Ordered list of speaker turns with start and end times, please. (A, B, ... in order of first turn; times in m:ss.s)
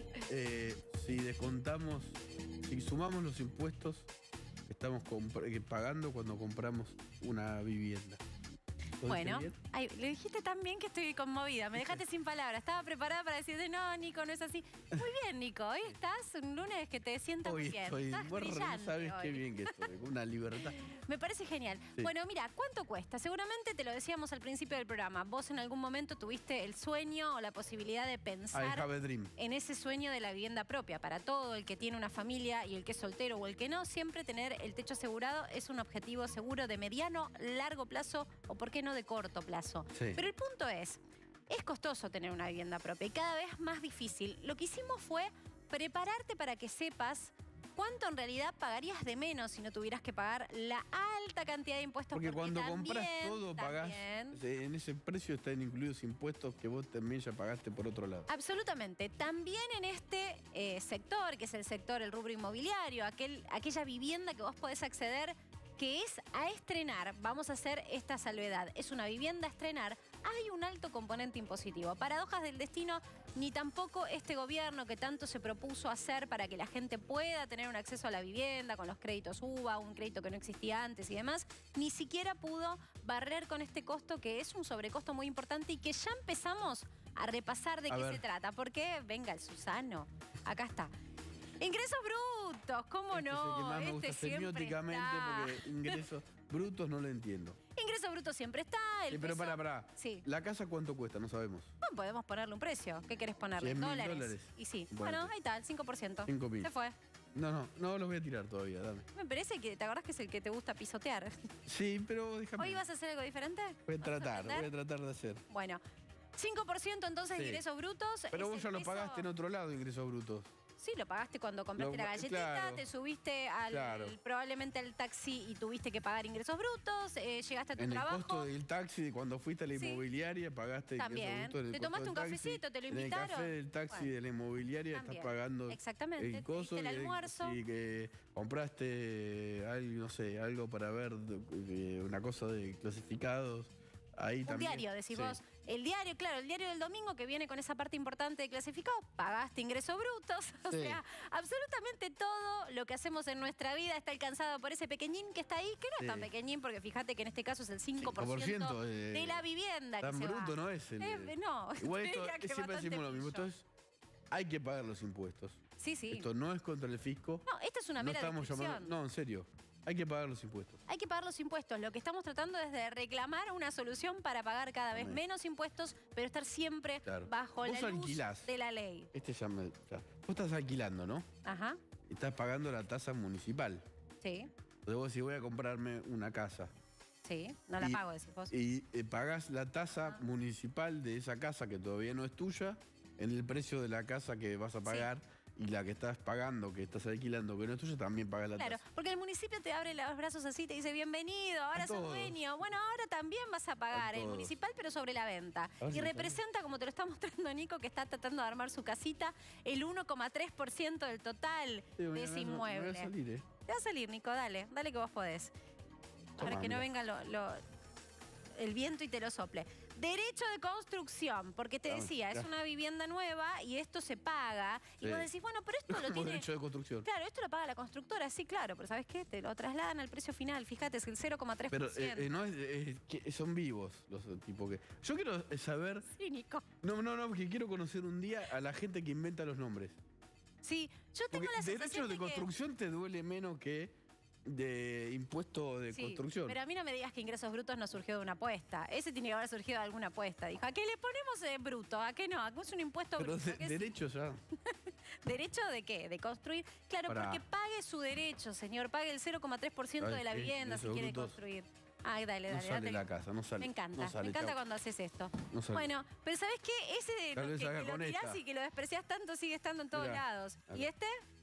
0:00.3-0:04.1 A
0:04.6-0:08.2 A
0:09.0-0:09.6 A
0:09.0-0:19.8 B
0:11.7-0:12.0 A
0:17.4-0:20.8 A
0:20.5-0:54.4 B
0:28.5-0:29.3 A
0:39.9-0:40.2 A
0:52.1-0:58.3 A
0:58.3-1:30.9 B
1:27.9-1:28.2 A
1:31.6-1:36.0 B
1:33.1-1:37.6 A
1:37.7-1:40.2 B
1:39.1-1:41.7 A
1:41.8-1:46.9 B
1:43.6-1:45.3 A
1:46.2-1:46.7 A
1:47.3-1:49.1 A
1:49.1-1:51.5 B
1:51.6-1:52.8 A
1:52.6-1:54.7 B
1:53.9-1:55.4 A
1:55.5-1:55.8 B
1:56.4-1:59.3 B
1:57.3-1:57.6 A
1:58.3-2:00.5 A
2:00.8-2:08.5 B
2:01.8-2:02.9 A
2:03.7-2:04.2 A
2:07.8-2:25.4 A
2:09.7-2:10.0 B
2:11.0-2:14.1 B
2:14.9-2:17.6 B
2:24.4-2:43.5 B
2:30.7-2:31.0 A
2:36.0-2:36.3 A
2:38.0-2:39.4 A
2:40.0-2:43.6 A
2:44.3-2:47.4 A
2:45.8-2:46.3 B
2:47.4-2:48.9 B
2:48.0-2:50.8 A
2:50.9-2:59.1 B
2:54.9-2:55.2 A
2:57.0-2:58.5 A
2:59.1-3:01.2 A
3:01.4-3:01.8 B
3:02.1-3:03.8 A
3:04.2-3:04.5 B
3:04.8-3:06.7 A
3:07.2-3:08.5 B
3:07.8-3:18.8 A
3:18.6-3:33.1 B
3:21.7-3:22.4 A
3:23.9-3:24.5 A
3:25.8-3:26.4 A
3:32.0-3:33.4 A
3:33.6-3:35.5 B
3:36.4-3:36.9 A
3:36.4-3:37.6 B
3:38.5-3:46.5 B
3:41.9-3:42.5 A
3:45.0-3:45.3 A
3:45.9-3:47.1 A
3:47.0-3:52.3 B
3:51.7-3:56.1 A
3:56.1-3:56.6 B
3:56.8-4:00.0 A
4:00.6-4:02.5 B
4:01.3-4:06.6 A
4:05.9-4:13.9 B
4:13.2-4:14.4 A
4:14.6-4:23.1 B
4:17.1-4:17.4 A
4:20.0-4:21.4 A
4:22.5-4:24.6 A
4:23.6-4:31.2 B
4:25.5-4:25.9 A
4:27.3-4:28.4 A
4:29.9-4:30.9 A